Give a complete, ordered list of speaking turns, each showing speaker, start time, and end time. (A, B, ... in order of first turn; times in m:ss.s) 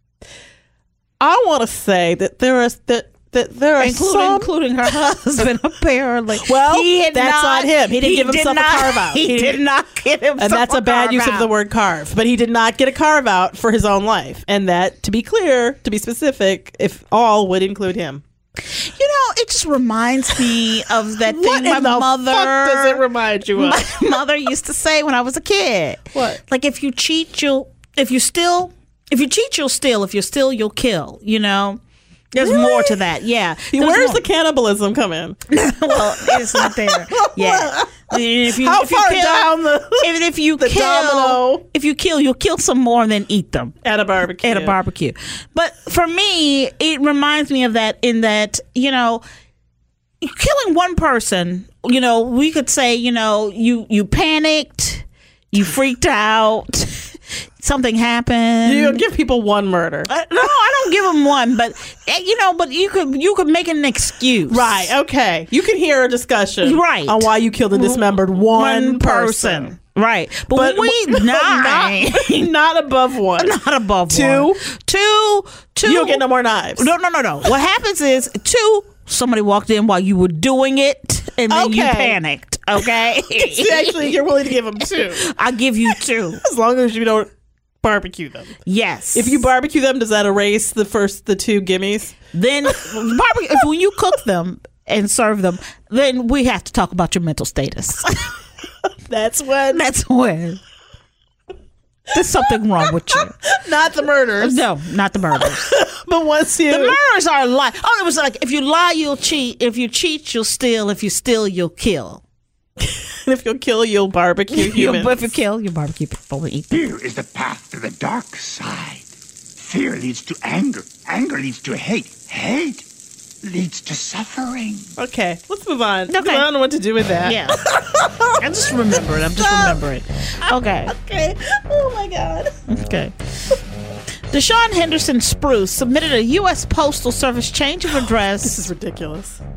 0:01.2-0:04.5 A
0:03.8-0:11.5 B
0:06.4-0:09.6 A
0:10.4-0:18.2 A
0:18.6-0:31.8 B
0:21.2-0:23.8 A
0:26.1-0:26.4 A
0:32.3-0:34.2 B
0:32.4-0:33.0 A
0:33.7-0:35.4 A
0:35.5-0:43.8 B
0:35.9-0:41.6 A
0:43.8-0:44.8 A
0:44.4-0:49.2 B
0:50.2-0:59.0 B
0:58.6-1:00.1 A
1:00.1-1:04.9 B
1:04.5-1:09.7 A
1:06.6-1:12.5 B
1:10.5-1:13.5 A
1:13.4-1:16.2 B
1:14.1-1:14.6 A
1:15.8-1:16.9 A
1:16.8-1:24.2 B
1:21.5-1:22.2 A
1:23.3-1:25.3 A
1:24.8-1:26.4 B
1:26.4-1:27.3 A
1:27.8-1:28.6 A
1:28.6-1:29.4 B
1:29.1-1:32.2 A
1:32.3-1:38.4 B
1:39.1-1:39.8 A
1:39.7-1:40.6 B
1:42.1-1:43.3 B
1:43.1-1:44.6 A
1:44.4-1:45.7 B
1:45.5-1:47.0 A
1:46.7-1:52.2 B
1:52.9-1:55.2 A
1:54.5-1:56.8 B
1:56.7-2:02.8 C
2:03.4-2:04.9 C
2:05.0-2:08.4 A
2:06.1-2:06.5 B
2:07.2-2:07.6 B
2:08.4-2:10.9 B
2:09.4-2:09.8 A
2:10.4-2:12.5 A
2:12.7-2:13.1 B
2:14.3-2:18.7 B
2:18.4-2:19.4 A